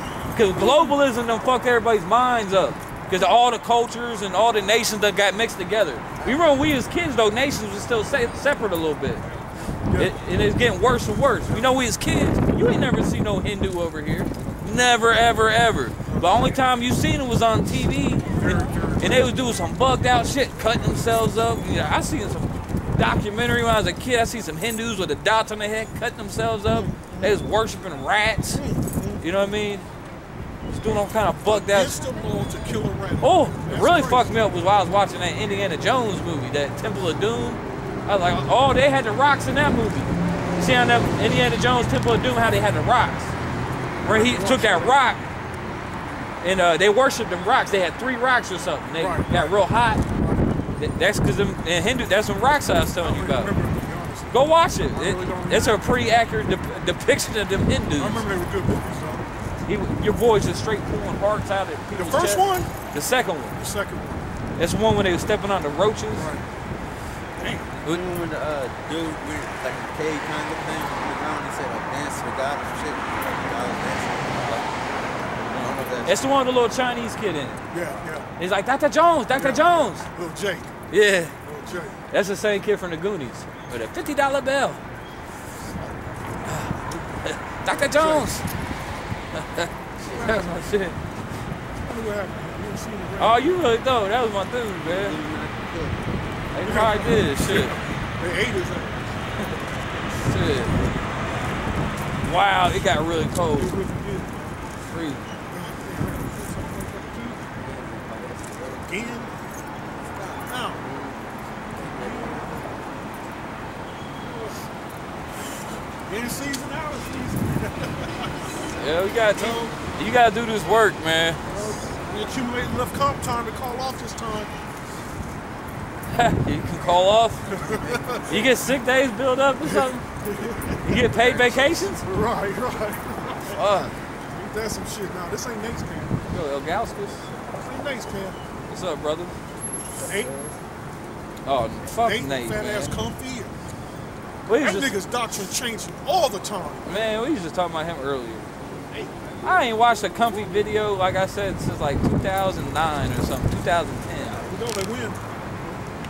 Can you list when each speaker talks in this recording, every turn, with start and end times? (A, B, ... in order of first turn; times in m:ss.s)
0:00.3-0:09.2 A
0:00.6-0:00.9 B
0:06.2-0:06.4 C
0:09.2-0:10.2 B
0:09.9-0:28.6 A
0:11.5-0:11.8 B
0:16.0-0:16.6 B
0:18.3-0:19.3 B
0:26.7-0:27.4 B
0:28.5-0:29.2 B
0:29.2-0:29.9 A
0:30.7-0:32.0 A
0:31.4-0:34.6 B
0:33.2-0:43.3 A
0:44.0-0:45.2 A
0:44.0-0:45.0 B
0:46.4-0:50.0 A
0:49.0-0:50.8 B
0:50.8-0:53.5 A
0:53.0-0:55.9 B
0:54.3-0:58.2 A
0:58.0-0:59.3 B
0:59.6-1:03.6 A
1:01.9-1:02.7 B
1:03.5-1:04.3 B
1:04.6-1:06.3 A
1:06.2-1:06.5 B
1:07.4-1:07.7 B
1:07.8-1:14.6 C
1:15.5-1:17.6 A
1:15.5-1:16.2 C
1:17.7-1:18.3 B
1:18.4-1:20.0 A
1:19.3-1:20.8 B
1:20.9-1:21.3 A
1:21.4-1:22.0 B
1:22.1-1:24.8 A
1:25.8-1:26.2 B
1:26.4-1:28.4 A
1:27.7-1:28.3 B
1:29.3-1:31.0 A
1:30.0-1:30.3 C
1:30.1-1:30.5 B
1:31.8-1:33.5 B
1:33.2-1:35.2 A
1:34.8-1:36.3 C
1:36.5-1:37.8 A
1:36.6-1:39.2 B
1:40.2-1:40.7 A
1:42.2-1:43.7 A
1:43.5-1:44.6 B
1:44.8-1:45.3 A
1:45.5-1:47.4 B
1:47.6-1:48.8 C
1:48.7-1:49.3 B
1:50.1-1:52.8 C
1:50.3-1:50.8 B
1:51.7-1:52.7 B
1:54.2-1:54.6 B
1:56.0-1:58.4 B
1:58.8-2:01.4 A
1:59.4-1:59.8 B
2:01.5-2:04.5 B
2:06.1-2:07.5 A
2:07.5-2:08.6 C
2:07.5-2:08.5 B
2:08.3-2:10.0 A
2:09.6-2:13.6 B
2:10.8-2:12.0 A
2:13.5-2:13.9 A
2:14.3-2:16.2 B
2:16.3-2:17.2 A
2:17.5-2:18.4 B
2:18.7-2:19.3 A
2:20.0-2:20.3 B
2:20.0-2:20.5 C
2:21.4-2:23.0 A
2:22.0-2:23.5 B
2:24.5-2:24.9 A
2:24.6-2:27.1 B
2:26.8-2:28.5 A
2:28.9-2:30.6 B
2:29.4-2:34.4 A
2:34.4-2:35.2 B